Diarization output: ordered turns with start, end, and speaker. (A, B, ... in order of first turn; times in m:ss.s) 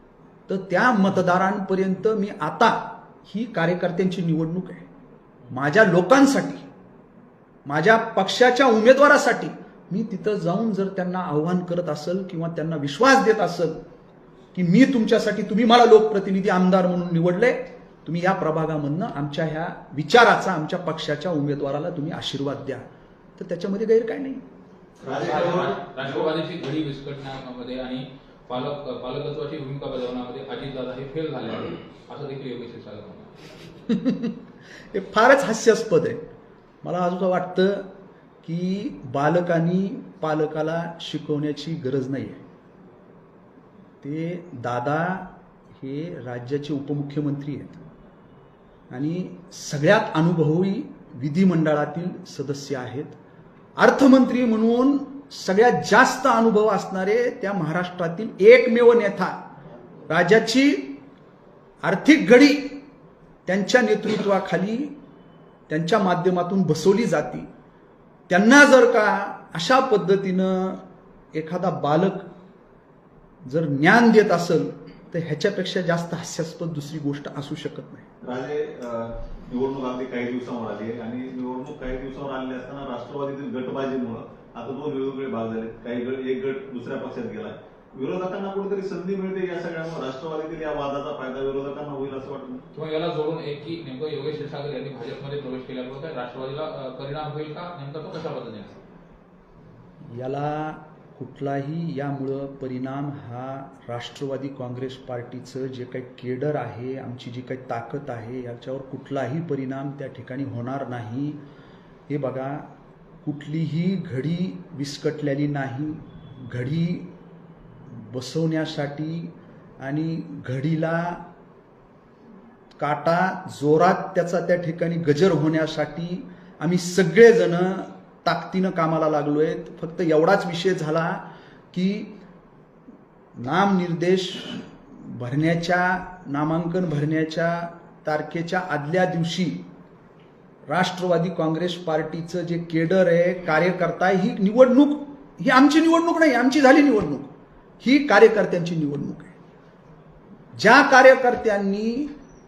0:00.5-0:04.8 A
0:05.5-0:06.7 A
0:07.6-0:13.8 A
0:14.5-0:24.4 A
0:25.0-0:26.3 B
0:25.0-0:33.4 C
0:33.9-0:34.4 A
0:34.9-0:36.2 A
0:36.8-0:37.9 A
0:38.4-0:42.4 A
0:44.0-0:47.8 A
0:48.9-0:53.2 A
0:53.8-0:59.4 A
1:00.1-1:01.0 A
1:01.8-1:02.8 A
1:03.4-1:04.9 A
1:05.7-1:07.5 A
1:08.3-1:12.3 A
1:13.4-1:18.1 A
1:18.2-1:32.6 B
1:32.7-1:38.8 C
1:40.0-1:51.4 A
1:52.1-1:52.7 A
1:53.2-1:57.1 A
1:57.9-2:01.2 A
2:02.8-2:12.2 A
2:13.4-2:19.6 A
2:20.7-2:29.3 A
2:30.6-2:32.1 A